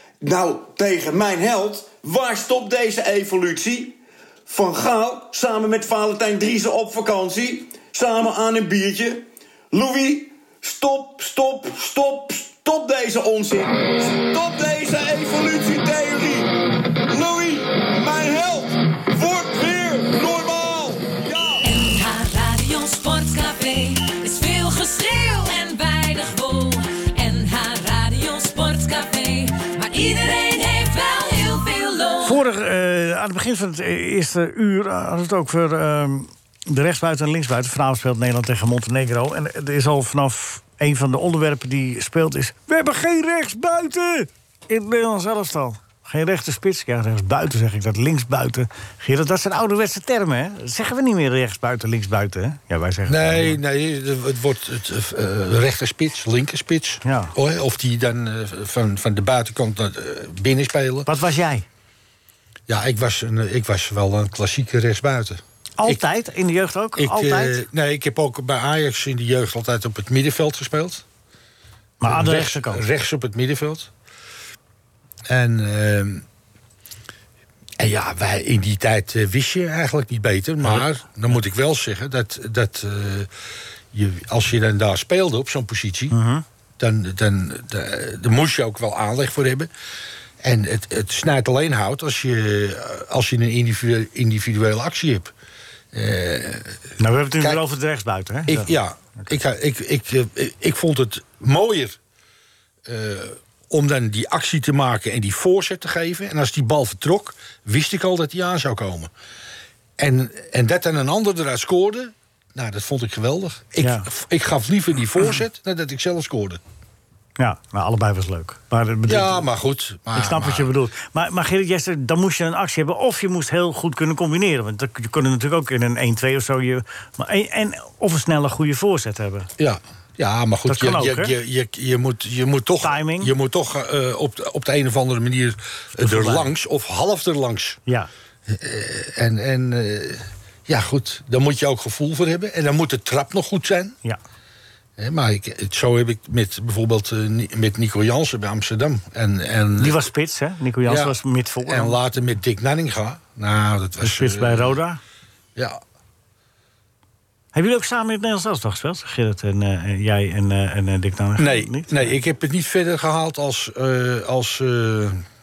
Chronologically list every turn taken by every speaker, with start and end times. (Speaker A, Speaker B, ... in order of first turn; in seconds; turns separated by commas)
Speaker A: 0.2-21.6, Speaker B: 21.6-32.4, Speaker C: 32.2-53.6, Speaker D: 53.1-61.1, Speaker C: 57.0-57.3, Speaker C: 61.0-61.6, Speaker D: 62.7-66.0, Speaker C: 65.8-67.6, Speaker D: 67.0-71.0, Speaker C: 72.0-72.8, Speaker D: 72.0-73.9, Speaker D: 75.3-76.2, Speaker D: 77.8-83.3, Speaker D: 83.9-86.2, Speaker C: 86.1-86.4, Speaker D: 86.8-89.7, Speaker D: 90.4-95.3, Speaker D: 95.9-96.8, Speaker C: 97.0-99.3, Speaker D: 98.5-102.0, Speaker D: 102.8-109.1, Speaker D: 110.0-116.6, Speaker C: 113.8-114.1, Speaker C: 117.4-119.5, Speaker D: 119.1-120.7, Speaker C: 120.1-129.5, Speaker D: 129.6-137.8, Speaker C: 130.7-131.3, Speaker C: 132.8-133.3, Speaker C: 136.0-136.5, Speaker D: 138.5-143.9, Speaker D: 145.0-150.0, Speaker C: 149.8-152.0, Speaker D: 150.8-154.8, Speaker C: 154.0-155.0, Speaker C: 157.5-162.2, Speaker D: 161.4-165.2